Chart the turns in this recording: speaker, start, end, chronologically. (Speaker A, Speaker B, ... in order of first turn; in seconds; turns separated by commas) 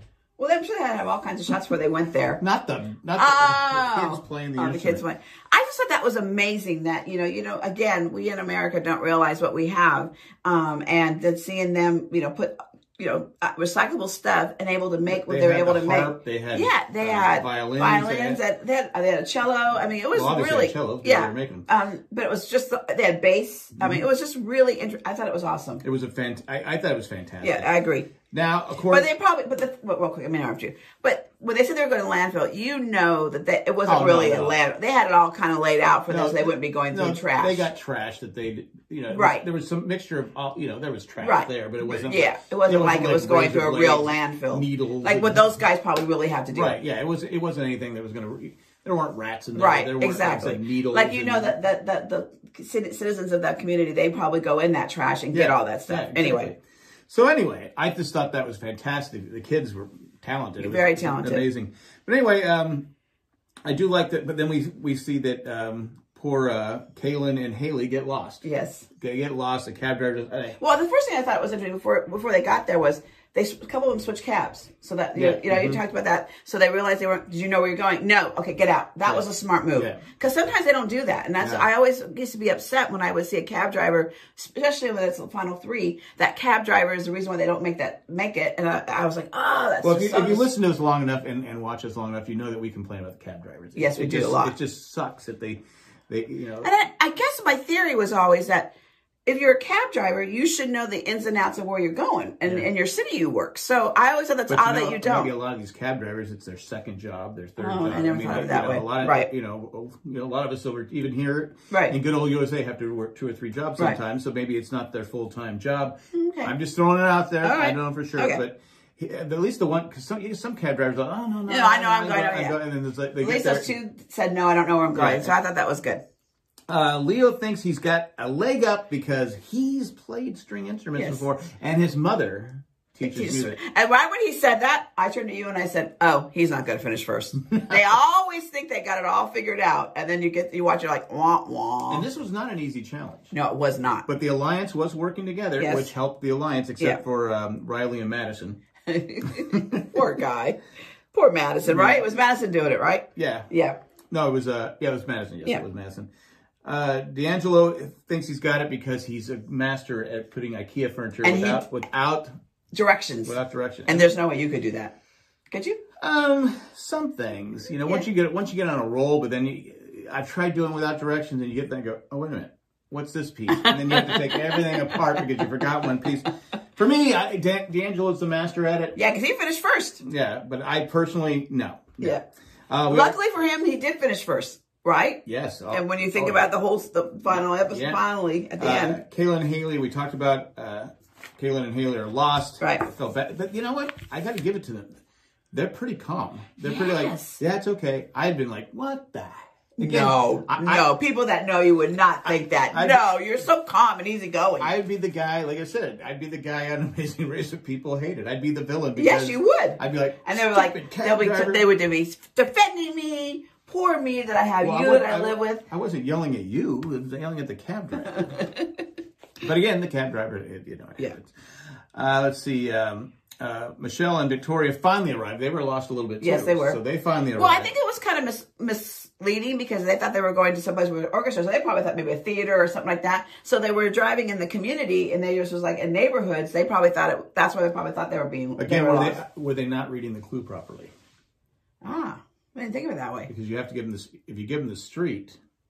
Speaker A: 0.4-2.4, Speaker B: 2.4-5.0, Speaker A: 3.2-25.8, Speaker B: 15.1-18.4, Speaker B: 20.1-21.7, Speaker B: 23.8-24.0, Speaker B: 25.8-27.7, Speaker A: 27.4-28.1, Speaker B: 28.3-29.1, Speaker A: 28.9-37.7, Speaker B: 33.9-34.6, Speaker B: 36.1-45.5, Speaker A: 39.1-39.4, Speaker A: 41.2-46.8, Speaker B: 46.5-51.6, Speaker A: 49.5-56.5, Speaker B: 55.3-62.9, Speaker A: 60.6-61.4, Speaker B: 63.6-70.6, Speaker A: 68.4-68.9, Speaker A: 70.6-90.5, Speaker B: 75.2-75.8, Speaker B: 79.0-80.0, Speaker B: 81.4-81.7, Speaker B: 89.8-96.7, Speaker A: 93.8-94.5, Speaker A: 96.6-98.7, Speaker A: 99.3-105.3, Speaker B: 104.5-123.7, Speaker A: 107.6-109.3, Speaker A: 111.7-112.0, Speaker A: 116.1-116.5, Speaker A: 117.4-118.4, Speaker A: 121.5-122.6, Speaker A: 123.2-126.0, Speaker B: 124.9-125.3, Speaker B: 126.7-133.6, Speaker A: 131.0-131.2, Speaker A: 133.0-142.1, Speaker B: 141.9-143.3, Speaker A: 143.3-144.1, Speaker B: 144.1-148.6, Speaker A: 145.6-145.9, Speaker A: 148.9-150.6, Speaker B: 149.2-150.0, Speaker A: 151.1-153.8, Speaker B: 151.7-152.1, Speaker B: 153.2-153.5, Speaker B: 154.1-156.1, Speaker B: 156.6-162.3, Speaker A: 161.2-161.7, Speaker A: 162.7-163.3, Speaker B: 163.2-164.1, Speaker A: 163.9-164.9, Speaker A: 165.5-165.8, Speaker B: 166.0-179.0, Speaker A: 173.5-175.6, Speaker A: 179.0-180.0, Speaker B: 180.0-183.2, Speaker A: 182.9-189.0, Speaker B: 185.3-186.5, Speaker B: 187.3-188.0, Speaker B: 188.6-195.0, Speaker B: 195.5-200.9, Speaker A: 196.6-197.4, Speaker A: 199.8-204.7, Speaker B: 202.2-203.1, Speaker B: 204.6-211.6, Speaker A: 209.0-215.6, Speaker B: 214.6-218.4, Speaker A: 218.1-218.8, Speaker B: 219.4-221.3, Speaker B: 221.9-227.7, Speaker A: 226.2-226.8, Speaker A: 227.3-239.2, Speaker B: 238.6-240.9, Speaker A: 241.8-243.3, Speaker B: 243.3-245.4